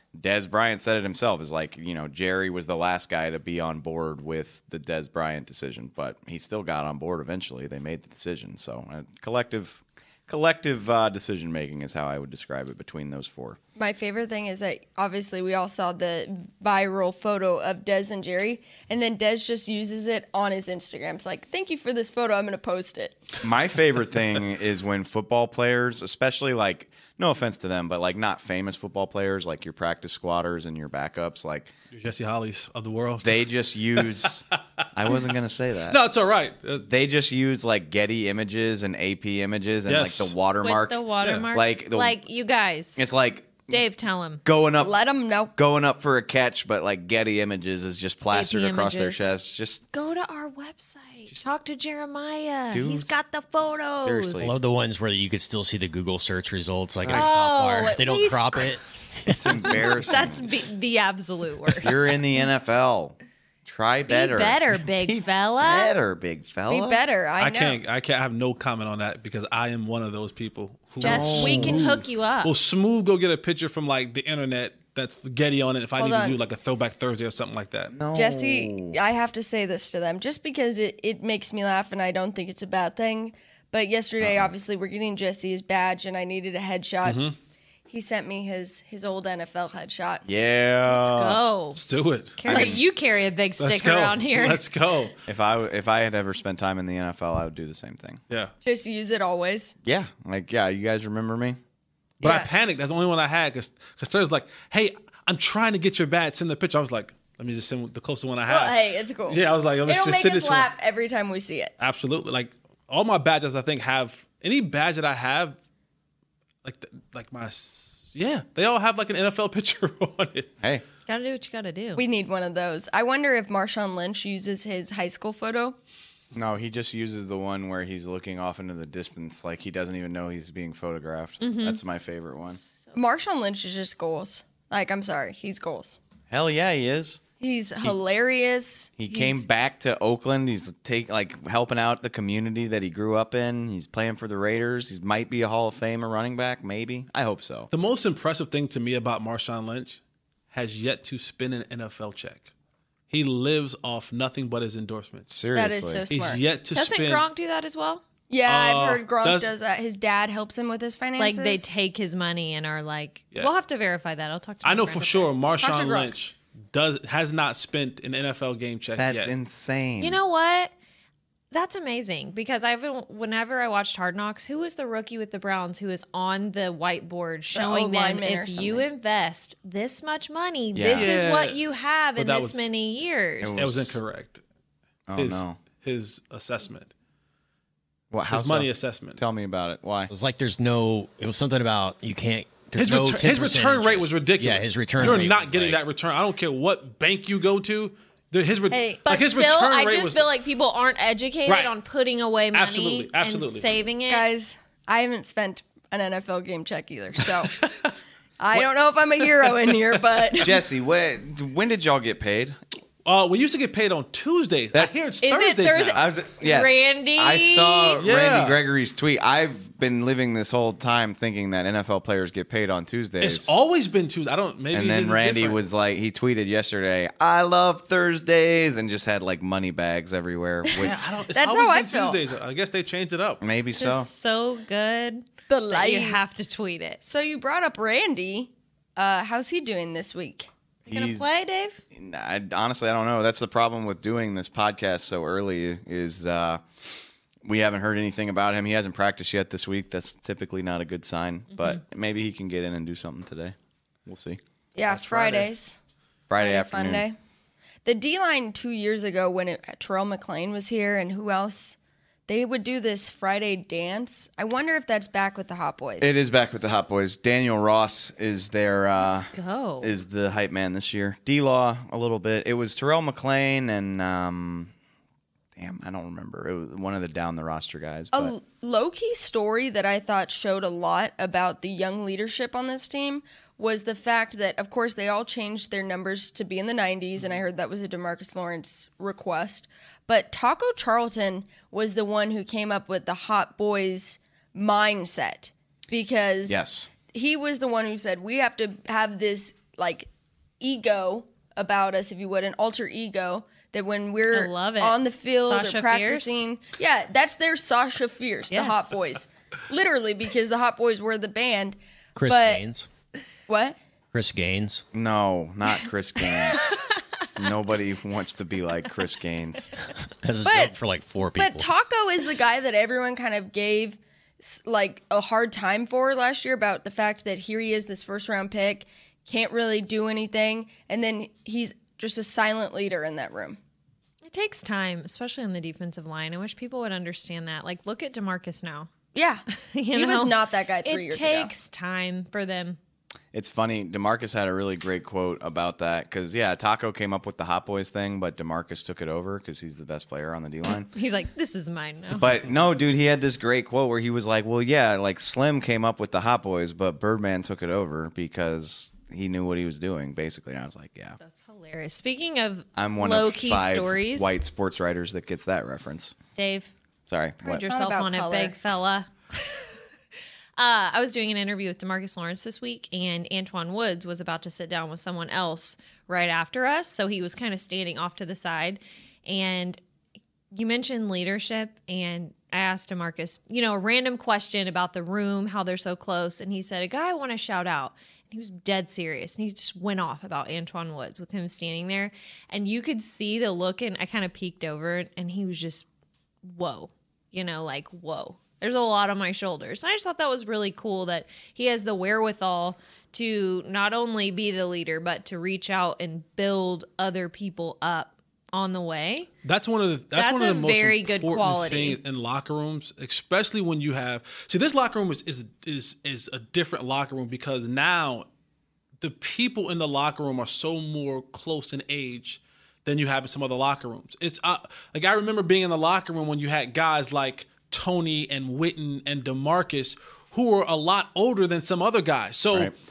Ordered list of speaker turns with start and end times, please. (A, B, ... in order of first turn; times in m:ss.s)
0:00.2-0:13.6 A
0:13.8-0:23.3 B
0:23.4-0:31.7 A
0:31.9-0:35.3 C
0:33.2-0:36.0 A
0:35.9-0:36.9 C
0:36.8-0:42.2 A
0:39.9-0:40.3 C
0:40.6-0:43.1 D
0:43.0-0:43.8 A
0:43.7-0:44.4 D
0:44.4-0:45.0 A
0:44.8-0:45.5 B
0:45.6-0:49.8 A
0:48.3-0:49.3 D
0:49.9-0:54.6 D
0:52.7-0:54.6 A
0:54.4-0:59.8 E
0:57.0-0:57.3 A
0:57.1-0:58.8 D
0:59.3-1:00.4 A
0:59.6-1:02.1 D
1:01.8-1:07.0 A
1:04.1-1:05.9 D
1:06.7-1:07.8 B
1:07.4-1:17.9 C
1:11.0-1:12.5 D
1:11.0-1:11.8 A
1:16.0-1:16.4 B
1:17.9-1:19.0 A
1:18.1-1:27.2 B
1:24.2-1:24.5 A
1:27.0-1:27.3 C
1:27.9-1:30.2 B
1:30.2-1:31.4 A
1:30.8-1:31.8 D
1:31.7-1:32.8 C
1:32.4-1:34.6 D
1:32.5-1:32.8 A
1:33.6-1:35.1 C
1:35.2-1:38.2 A
1:38.6-1:39.7 B
1:39.8-1:41.6 A
1:42.2-1:50.7 C
1:42.2-1:42.5 B
1:48.5-1:51.7 B
1:51.8-1:55.6 C
1:56.6-2:00.5 C
2:01.1-2:02.0 D
2:02.0-2:05.8 B
2:06.3-2:12.6 A
2:11.4-2:11.8 D
2:12.9-2:16.0 B
2:16.3-2:17.2 A
2:17.4-2:19.4 B
2:19.0-2:27.9 A
2:27.7-2:30.0 C
2:30.5-2:32.5 C
2:33.1-2:35.3 C
2:35.3-2:36.0 A
2:35.5-2:36.4 B
2:36.1-2:37.2 C
2:36.7-2:38.0 D
2:38.3-2:41.7 B
2:38.4-2:39.5 C
2:41.2-2:45.3 D
2:44.6-2:49.3 C
2:45.6-2:46.1 B
2:49.0-2:50.2 A
2:50.0-2:50.7 D
2:51.5-3:03.7 D
2:57.5-2:58.8 B
3:00.7-3:01.1 A
3:00.9-3:01.6 C
3:02.2-3:02.7 C
3:03.4-3:04.0 A
3:03.6-3:04.4 C
3:05.1-3:05.6 A
3:05.2-3:06.9 C
3:08.1-3:10.1 A
3:08.3-3:09.2 C
3:10.1-3:15.8 E
3:12.8-3:20.3 C
3:18.7-3:19.0 B
3:19.0-3:24.2 D
3:21.5-3:21.7 C
3:22.5-3:23.7 C
3:24.1-3:27.6 B
3:27.4-3:27.9 C
3:28.4-3:30.5 B
3:28.5-3:30.5 C
3:30.4-3:32.6 A
3:33.0-3:36.0 C
3:35.2-3:38.0 D
3:35.9-3:43.5 A
3:38.0-3:38.6 C
3:43.2-3:45.6 C
3:44.7-3:51.0 A
3:50.7-3:52.2 B
3:50.8-3:53.4 C
3:53.4-3:54.1 A
3:53.8-3:57.0 D
3:55.5-3:56.2 B
3:57.0-4:00.5 B
4:00.9-4:01.3 A
4:00.9-4:01.8 D
4:01.9-4:06.9 A
4:07.4-4:13.5 A
4:14.0-4:14.4 A
4:14.7-4:15.8 B
4:14.9-4:15.5 C
4:16.3-4:17.0 A
4:16.4-4:17.2 B
4:17.8-4:26.1 B
4:26.0-4:29.3 A
4:29.0-4:29.9 D
4:29.8-4:34.7 A
4:35.6-4:38.3 A
4:38.1-5:00.1 B
4:56.5-4:56.9 A
5:00.6-5:12.6 B
5:04.3-5:06.4 D
5:08.5-5:08.9 D
5:12.1-5:12.9 E
5:13.5-5:13.8 B
5:14.1-5:14.8 E
5:14.9-5:16.7 A
5:16.5-5:16.8 D
5:17.4-5:19.7 A
5:20.2-5:21.7 E
5:20.4-5:20.8 B
5:21.3-5:33.6 B
5:34.2-5:38.9 D
5:39.1-5:41.5 B
5:39.7-5:42.8 D
5:43.3-5:50.9 A
5:50.9-5:52.4 D
5:52.1-6:01.2 A
6:01.2-6:04.3 D
6:02.8-6:06.2 A
6:06.3-6:06.7 D
6:07.1-6:07.6 A
6:07.4-6:09.7 D
6:07.4-6:08.6 B
6:10.6-6:19.8 D
6:20.5-6:35.8 D
6:36.4-6:49.3 D
6:49.4-6:58.2 C
6:50.1-6:52.0 D
6:59.0-7:12.7 C